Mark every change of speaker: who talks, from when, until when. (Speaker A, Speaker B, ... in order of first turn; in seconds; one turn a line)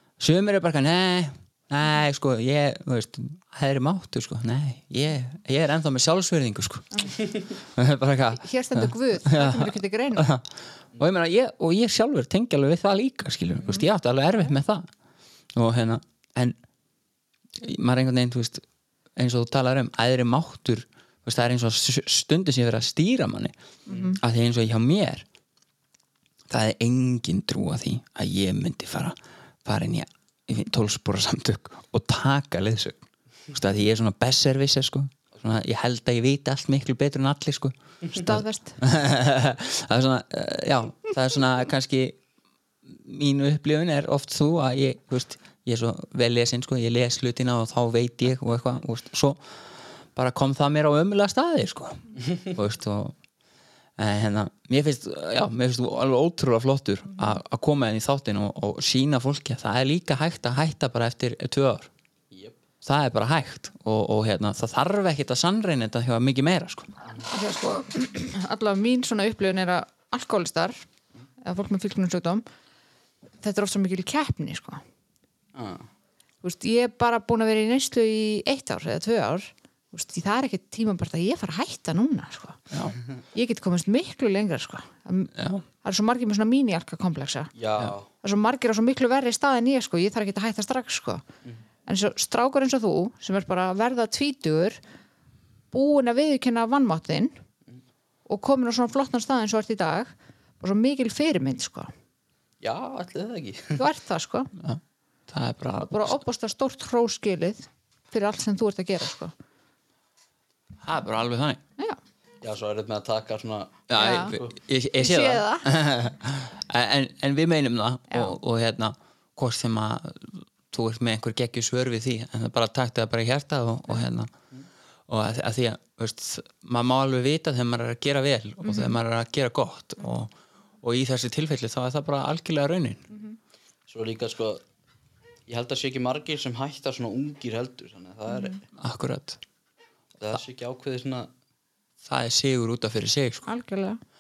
Speaker A: 0.2-14.9
Speaker B: 8.4-10.3
Speaker A: 15.5-16.6
Speaker A: 17.6-18.6
Speaker A: 19.2-23.5
Speaker B: 23.9-24.2
Speaker C: 23.9-24.1
Speaker A: 24.1-25.3
Speaker A: 26.5-42.2
Speaker B: 38.1-38.8
Speaker A: 42.9-53.2
Speaker A: 54.0-61.9
Speaker C: 62.3-62.6
Speaker A: 62.8-66.9
Speaker B: 67.3-70.8
Speaker B: 71.4-72.4
Speaker B: 73.4-74.8
Speaker C: 75.5-75.9
Speaker B: 76.4-82.6
Speaker A: 82.7-83.0
Speaker B: 83.3-87.5
Speaker A: 85.3-85.6
Speaker C: 87.5-88.1
Speaker B: 88.2-91.2
Speaker B: 91.9-94.8
Speaker B: 95.7-97.4
Speaker B: 98.3-101.9
Speaker C: 102.6-103.8
Speaker B: 103.8-104.5
Speaker A: 104.6-106.2
Speaker B: 105.8-109.3
Speaker A: 110.8-111.6
Speaker C: 112.4-114.6
Speaker A: 113.9-124.3
Speaker B: 114.0-114.4
Speaker B: 115.0-115.7
Speaker B: 118.1-118.4
Speaker A: 125.1-133.1
Speaker B: 128.6-129.0
Speaker B: 133.1-133.4
Speaker C: 133.9-134.6
Speaker C: 135.5-138.6
Speaker B: 138.3-138.6
Speaker A: 138.8-139.4
Speaker C: 140.2-141.3
Speaker A: 142.0-143.5
Speaker B: 143.5-144.0